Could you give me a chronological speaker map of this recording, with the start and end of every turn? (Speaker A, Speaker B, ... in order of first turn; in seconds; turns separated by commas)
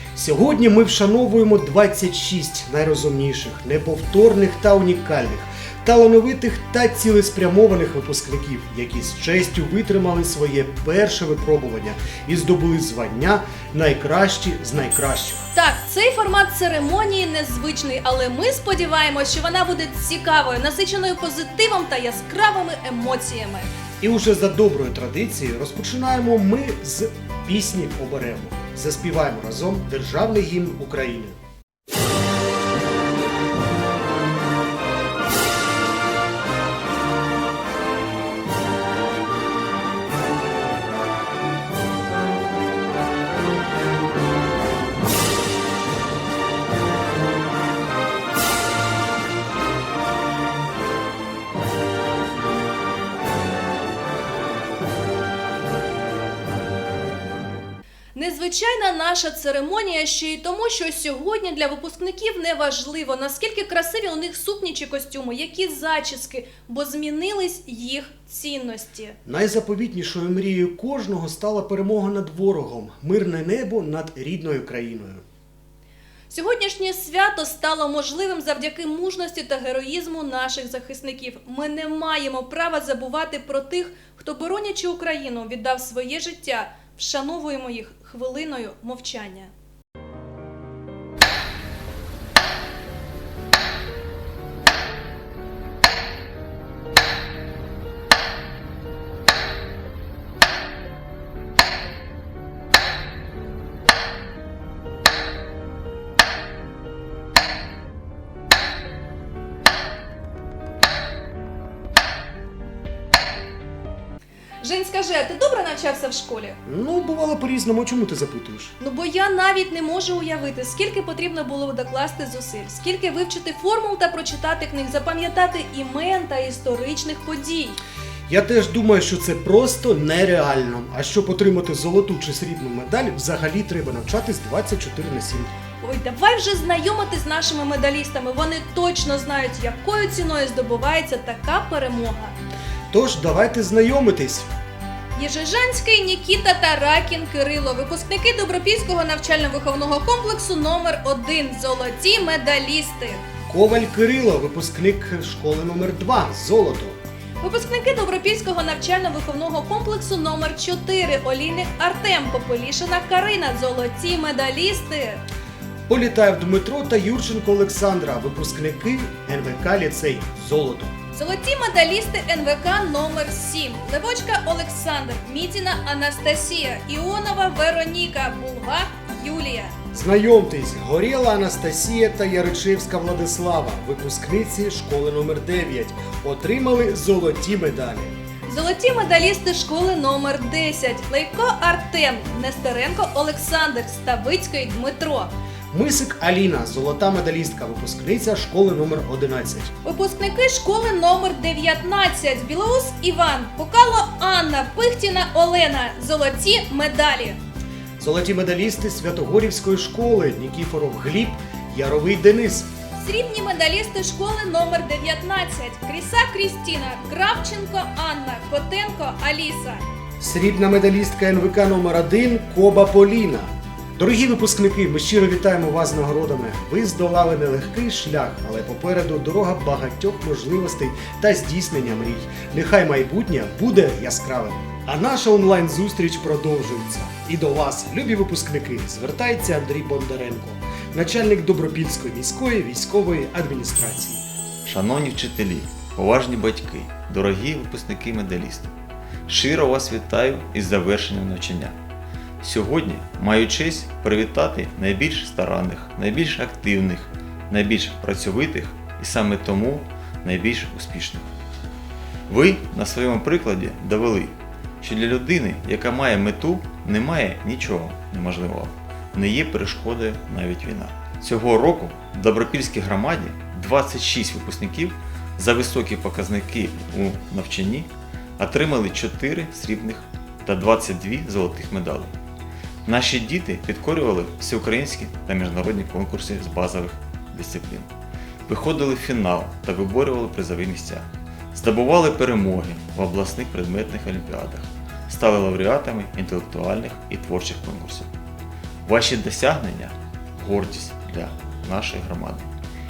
Speaker A: 0.1-15.4, Speaker B: 15.5-23.7, Speaker A: 24.0-31.4, Speaker B: 58.1-69.2, Speaker A: 69.2-75.2, Speaker B: 76.3-89.5, Speaker B: 114.6-116.6, Speaker A: 116.7-118.7, Speaker B: 118.8-127.8, Speaker A: 128.3-135.5, Speaker B: 135.8-142.3, Speaker A: 142.9-144.5, Speaker B: 145.2-153.2, Speaker A: 153.5-157.0, Speaker B: 157.4-165.2, Speaker A: 165.9-170.9, Speaker B: 171.1-179.7, Speaker A: 179.9-188.2, Speaker B: 188.5-195.3, Speaker A: 195.7-199.7, Speaker B: 199.8-207.4, Speaker A: 208.0-212.7, Speaker B: 213.0-219.8, Speaker A: 220.2-244.2, Speaker C: 244.6-248.7, Speaker C: 249.3-251.8, Speaker C: 252.4-261.3, Speaker C: 262.3-282.1, Speaker C: 282.8-287.9, Speaker C: 288.5-298.1, Speaker C: 298.9-302.5